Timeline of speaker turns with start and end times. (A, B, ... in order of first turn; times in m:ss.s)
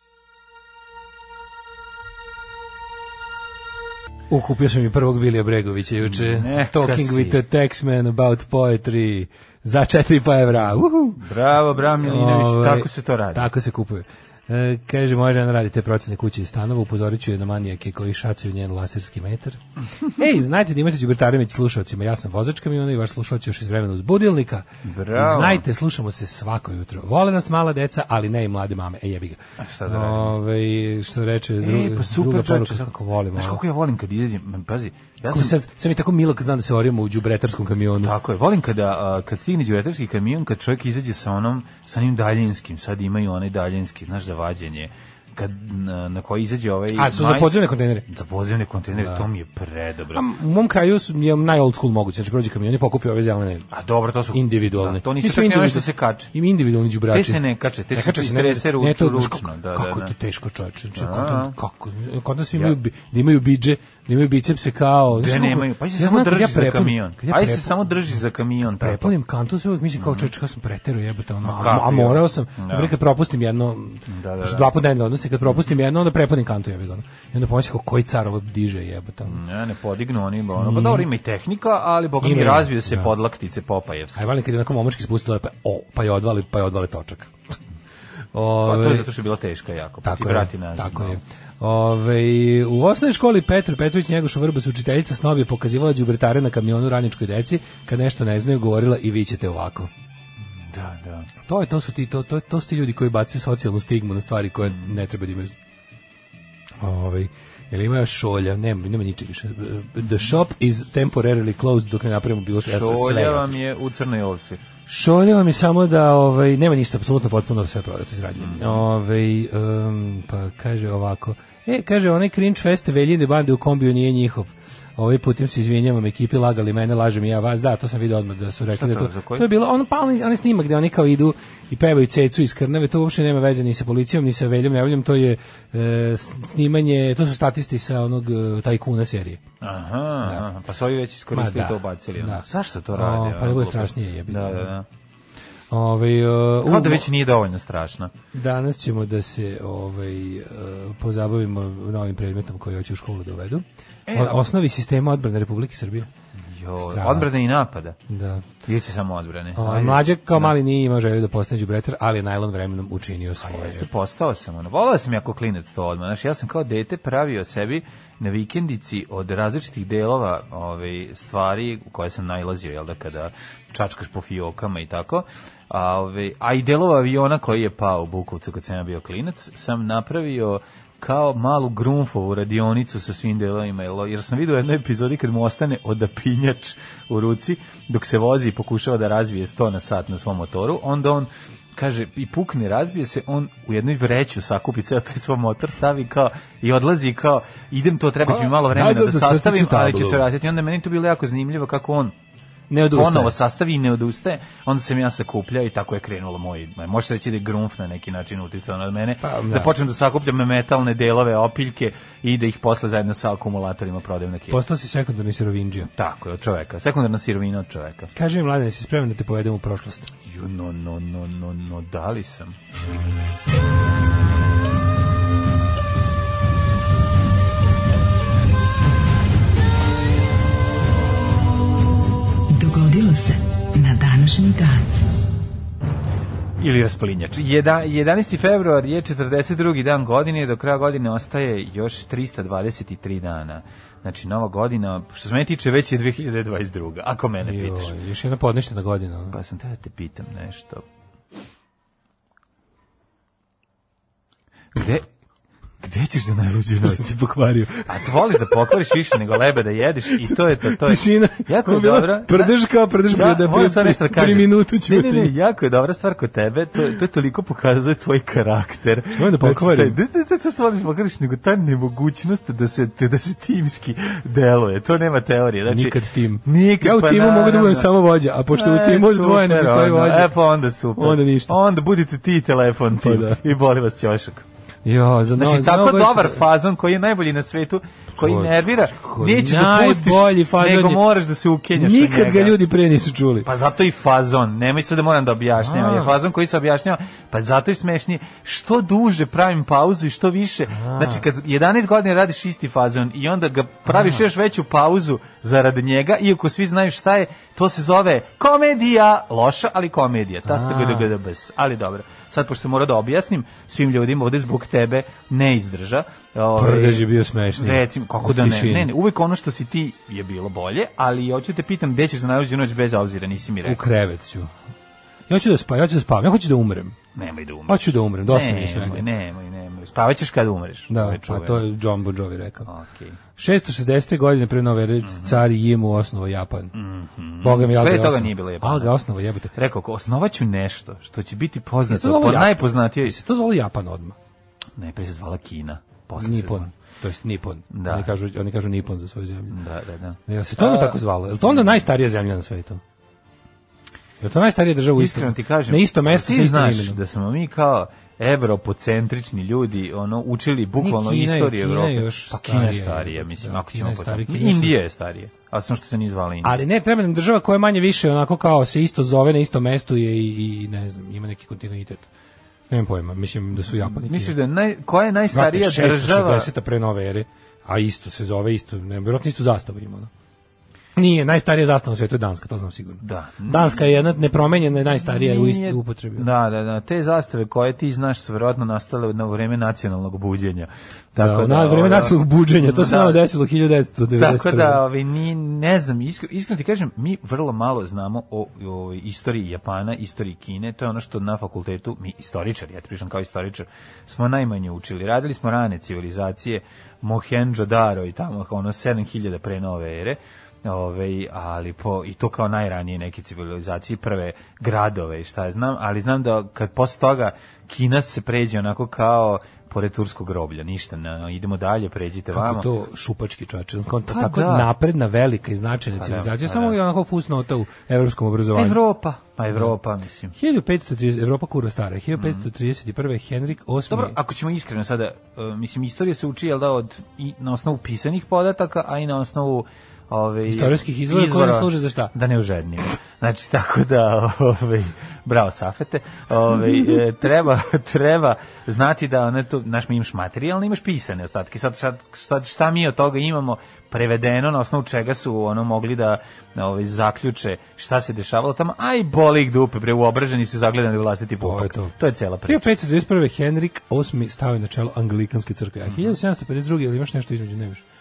0:04.3-0:11.3 A
0:06.0-0:07.4 B
0:11.2-0:13.5 B
0:12.0-0:33.6 A
0:24.8-0:25.6 B
0:29.6-0:30.4 B
0:31.6-0:35.6 B
0:35.3-0:38.1 A
0:38.0-0:50.3 B
0:46.9-0:48.0 A
0:48.9-0:49.3 A
0:50.1-0:53.7 A
0:53.7-0:56.3 B
0:54.3-1:07.8 A
0:57.1-1:00.1 B
1:01.0-1:01.6 B
1:05.1-1:09.2 B
1:08.7-1:19.4 A
1:10.0-1:10.3 B
1:11.4-1:12.9 B
1:14.1-1:14.8 B
1:15.4-1:15.7 B
1:19.3-1:24.2 B
1:20.6-1:21.1 A
1:22.2-1:23.1 A
1:24.2-1:27.3 A
1:28.3-1:29.1 A
1:28.6-1:31.2 B
1:30.0-1:39.9 A
1:40.6-1:41.3 B
1:41.5-1:45.5 A
1:44.6-1:44.9 B
1:46.8-1:53.6 A
1:52.6-1:54.6 B
1:54.9-2:19.4 A
1:58.4-1:58.8 B
2:08.7-2:09.5 B
2:19.6-2:24.9 B
2:21.3-2:24.7 A
2:25.7-2:27.1 A
2:26.6-2:28.1 B
2:28.3-2:36.1 A
2:34.1-2:34.4 B
2:36.4-2:38.0 B
2:36.9-2:37.3 A
2:38.1-2:38.5 A
2:38.6-2:40.6 B
2:39.6-2:43.9 A
2:43.4-3:22.2 B
3:18.2-3:20.3 A
3:22.7-3:23.3 A
3:22.9-3:34.6 B
3:29.2-3:29.7 A
3:34.5-3:35.9 A
3:35.9-3:38.1 B
3:38.2-3:40.1 A
3:40.2-3:42.6 B
3:52.5-3:54.9 C
3:56.6-4:07.9 B
4:07.4-4:09.4 A
4:09.3-4:10.8 B
4:14.7-4:15.1 B
4:15.8-4:17.0 B
4:16.8-4:19.2 A
4:17.9-4:37.9 B
4:20.2-4:25.3 A
4:29.1-4:30.0 A
4:35.7-4:40.3 A
4:38.5-4:44.4 B
4:41.0-4:41.6 A
4:43.0-4:43.4 A
4:44.8-4:46.4 A
4:45.4-4:52.6 B
4:48.2-4:51.0 A
4:51.8-4:53.5 A
4:53.4-5:23.8 B
4:55.6-4:56.2 A
5:00.7-5:01.2 A
5:03.9-5:04.2 A
5:10.4-5:11.1 A
5:16.6-5:18.9 A
5:23.6-5:24.5 A
5:25.3-5:27.0 A
5:27.2-5:31.7 B
5:27.7-5:29.1 A
5:30.9-5:32.7 A
5:32.7-5:33.2 B
5:33.4-5:36.7 A
5:35.0-5:35.4 B
5:36.7-5:39.0 B
5:37.4-5:39.5 A
5:39.5-5:43.2 B
5:41.9-5:44.2 A
5:44.8-5:46.7 B
5:46.2-5:49.6 A
5:47.7-5:48.1 B
5:49.5-5:51.8 B
5:50.3-5:52.8 A
5:54.2-5:57.0 A
5:55.0-6:06.6 B
6:00.8-6:04.8 A
6:06.4-6:12.1 A
6:12.7-6:14.4 A
6:13.6-6:16.5 B
6:15.3-6:20.1 A
6:21.0-6:26.3 A
6:23.0-6:23.9 B
6:25.0-6:33.2 B
6:31.2-6:34.8 A
6:34.2-7:02.7 B
7:02.3-7:08.8 A
7:04.1-7:04.7 B
7:06.0-7:06.8 B
7:08.6-7:10.4 B
7:10.4-7:14.2 A
7:12.2-7:12.5 B
7:13.9-7:42.7 B
7:20.5-7:22.1 A
7:41.4-7:47.8 A
7:45.9-7:46.2 B